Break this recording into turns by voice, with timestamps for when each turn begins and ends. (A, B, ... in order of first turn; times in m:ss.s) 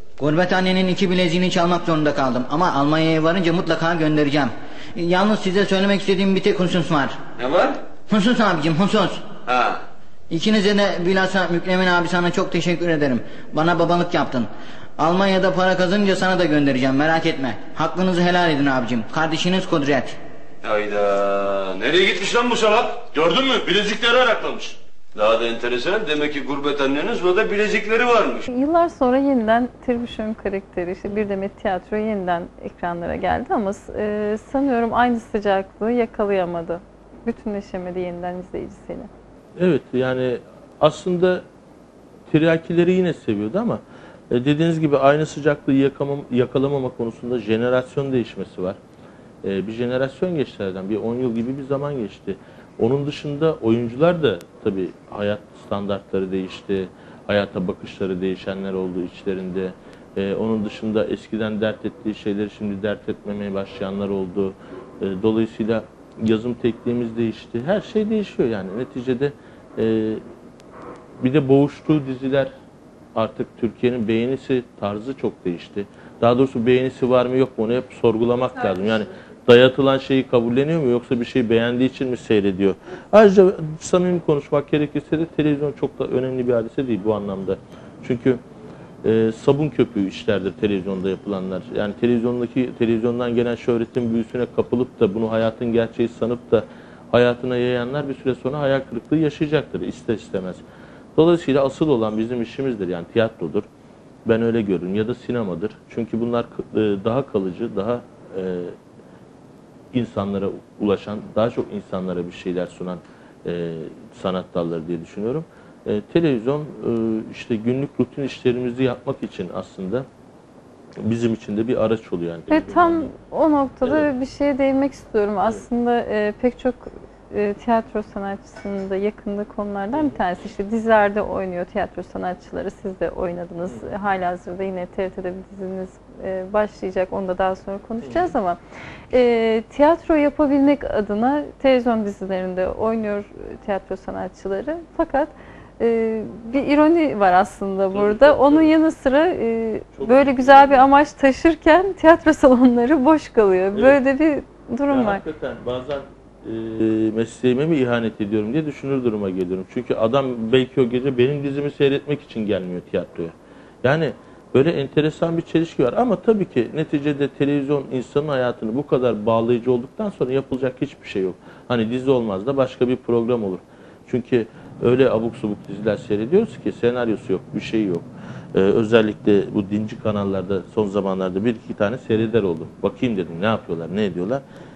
0:00.2-0:07.2 A
0:07.4-0:07.8 B
0:08.1-0:09.2 A
0:09.5-0:09.8 B
0:10.3-0:20.2 A
0:20.6-0:28.5 B
0:28.5-0:39.1 C
0:39.6-0:41.4 D
0:42.3-0:48.8 D
0:49.4-1:10.2 D
1:11.2-1:12.5 D
1:13.1-1:28.4 D
1:29.0-1:40.6 D
1:41.2-1:43.6 D
1:44.2-1:48.7 D
1:49.9-2:00.0 D
2:01.0-2:03.1 D
2:02.5-2:18.6 C
2:03.8-2:04.1 D
2:18.0-2:18.3 D
2:19.1-2:35.2 C
2:27.9-2:28.7 D
2:30.0-2:30.9 D
2:33.7-2:34.0 D
2:34.9-3:04.4 D